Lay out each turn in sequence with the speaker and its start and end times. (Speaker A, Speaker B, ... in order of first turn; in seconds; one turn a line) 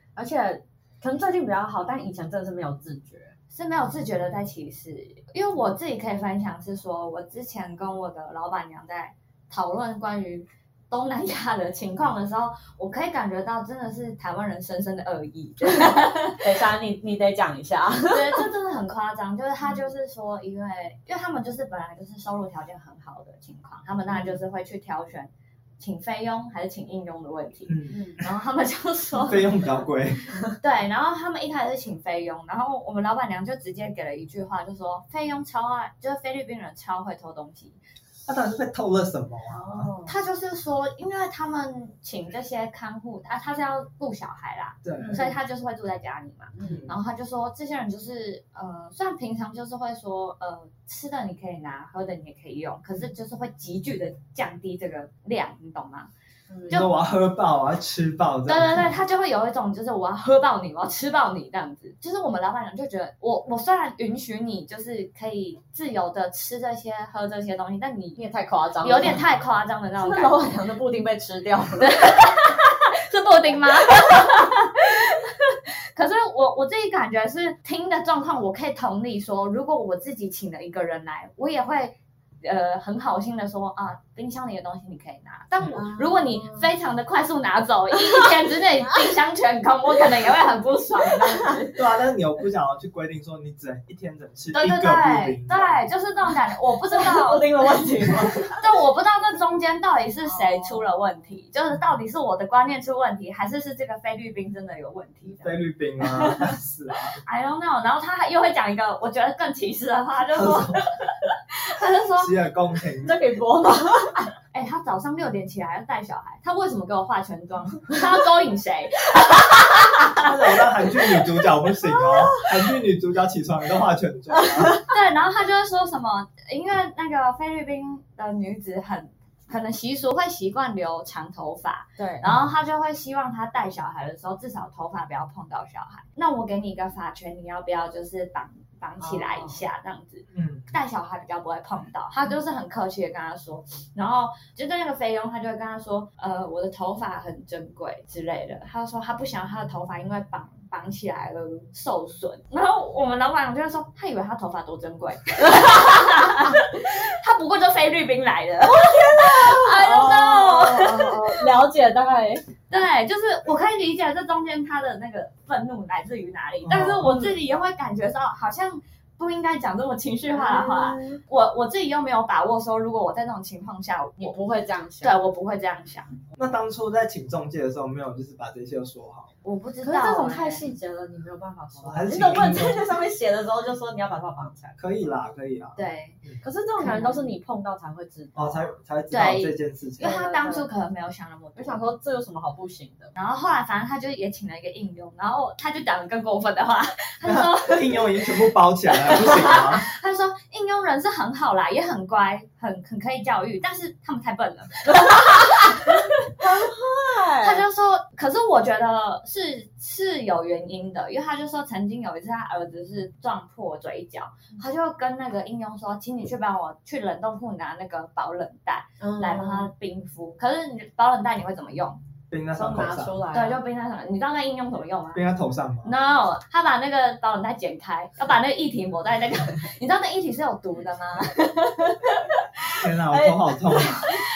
Speaker A: 0.1-3.3
Speaker B: 3.5-16.4
Speaker A: 15.8-18.5
Speaker B: 18.1-29.7
Speaker A: 24.1-24.4
Speaker C: 27.7-28.3
Speaker A: 27.9-28.2
Speaker C: 29.2-30.3
Speaker B: 30.6-37.8
Speaker C: 38.2-39.9
Speaker A: 39.5-40.2
Speaker B: 40.0-56.1
Speaker C: 44.8-45.2
Speaker A: 45.0-45.4
Speaker A: 46.5-46.9
Speaker C: 46.6-47.0
Speaker A: 56.5-56.9
Speaker C: 56.7-58.9
Speaker B: 58.5-68.2
Speaker A: 68.2-69.2
Speaker B: 68.8-70.4
Speaker A: 70.0-72.0
Speaker B: 71.8-91.7
Speaker A: 85.7-86.7
Speaker A: 91.0-91.7
Speaker C: 91.8-95.8
Speaker B: 94.5-97.5
Speaker A: 96.9-98.6
Speaker B: 98.5-106.5
Speaker A: 100.2-100.9
Speaker C: 105.4-107.2
Speaker B: 107.2-112.3
Speaker C: 110.3-110.8
Speaker C: 112.2-113.2
Speaker A: 113.0-114.3
Speaker B: 114.5-120.6
Speaker C: 120.2-124.8
Speaker A: 121.8-122.5
Speaker A: 124.3-124.9
Speaker B: 124.9-161.4
Speaker A: 132.0-132.3
Speaker C: 132.2-132.5
Speaker A: 139.0-139.6
Speaker C: 140.3-140.7
Speaker A: 158.6-162.4
Speaker B: 162.7-174.4
Speaker C: 166.6-167.2
Speaker A: 166.7-167.4
Speaker A: 170.3-171.2
Speaker A: 174.2-175.2
Speaker B: 175.0-176.2
Speaker C: 176.3-179.3
Speaker B: 179.4-180.6
Speaker A: 179.8-185.1
Speaker C: 181.8-182.9
Speaker C: 184.8-186.4
Speaker B: 185.8-186.2
Speaker A: 186.4-188.7
Speaker B: 186.8-187.3
Speaker C: 188.3-190.1
Speaker B: 189.1-191.9
Speaker A: 190.0-190.7
Speaker A: 191.6-193.1
Speaker B: 193.2-198.3
Speaker C: 197.2-199.9
Speaker B: 199.1-206.3
Speaker A: 204.9-207.6
Speaker B: 207.4-222.0
Speaker A: 219.0-219.7
Speaker C: 222.3-223.2
Speaker A: 222.5-223.6
Speaker B: 223.3-225.2
Speaker C: 225.1-225.9
Speaker B: 225.8-232.3
Speaker C: 232.8-234.1
Speaker A: 233.1-234.0